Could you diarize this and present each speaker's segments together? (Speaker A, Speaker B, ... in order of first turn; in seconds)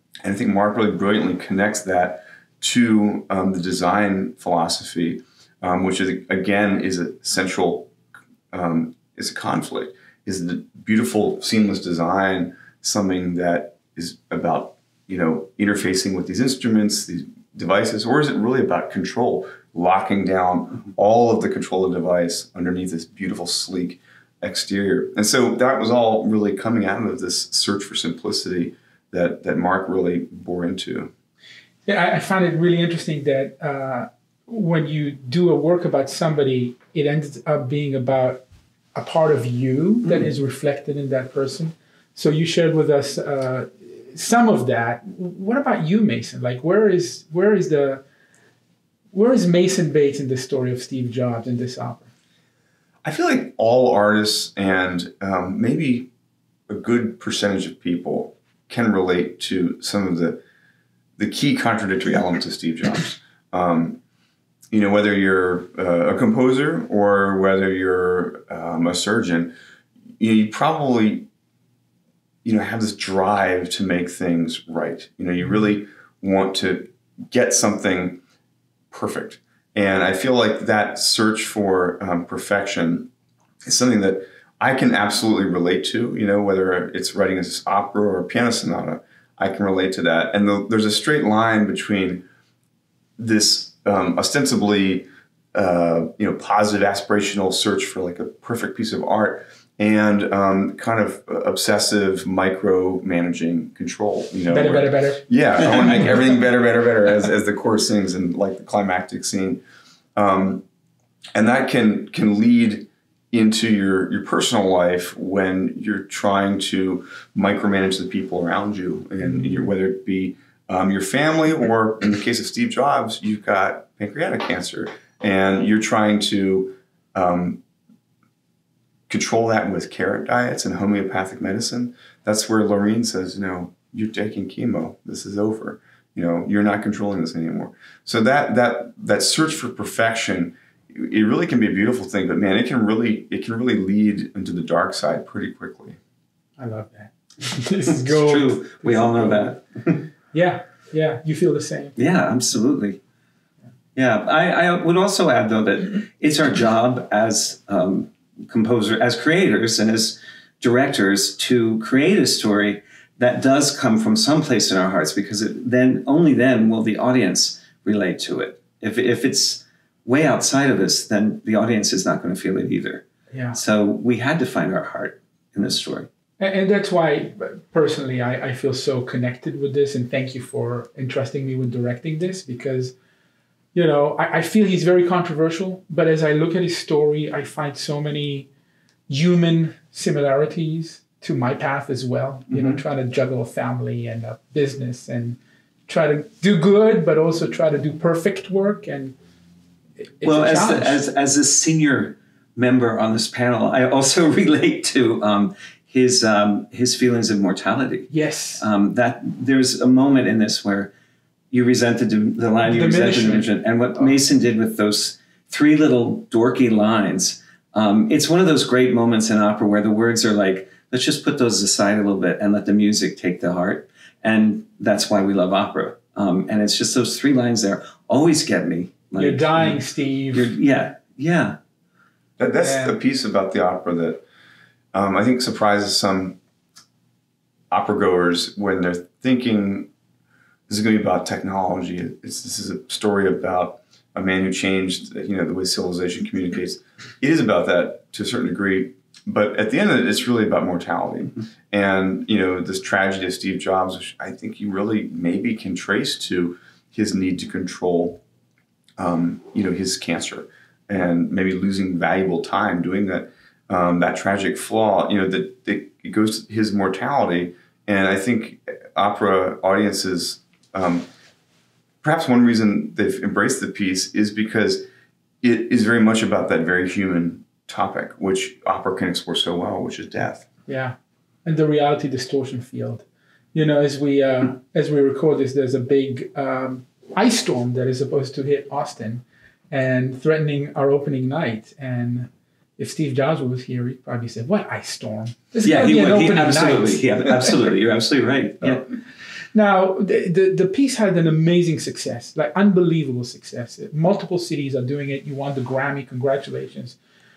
Speaker A: 0.2-7.9, 8.5-31.1, 53.0-56.1, 56.7-60.4, 61.2-64.0, 64.7-69.5, 70.2-71.3, 72.4-78.2, 78.9-83.1, 83.6-92.2, 93.2-109.6, 110.2-110.6, 111.3-127.6, 129.1-146.0, 232.4-234.2, 234.9-236.4, 237.7-239.9, 240.7-258.2, 259.0-271.1, 272.0-274.8, 275.4-280.4
Speaker B: 31.9-48.0, 49.1-52.1, 104.5-106.0, 146.6-149.6, 150.3-151.9, 173.3-173.6, 176.4-182.9, 183.7-188.5, 189.1-199.2, 200.2-201.0, 208.1-208.6, 212.6-213.5, 229.2-230.5, 232.6-233.0, 280.7-297.5, 299.5-307.0
Speaker C: 147.9-150.1, 151.9-153.0, 153.9-173.0, 173.5-176.1, 192.5-192.8, 200.2-210.9, 211.5-229.8, 230.3-231.6, 295.6-298.9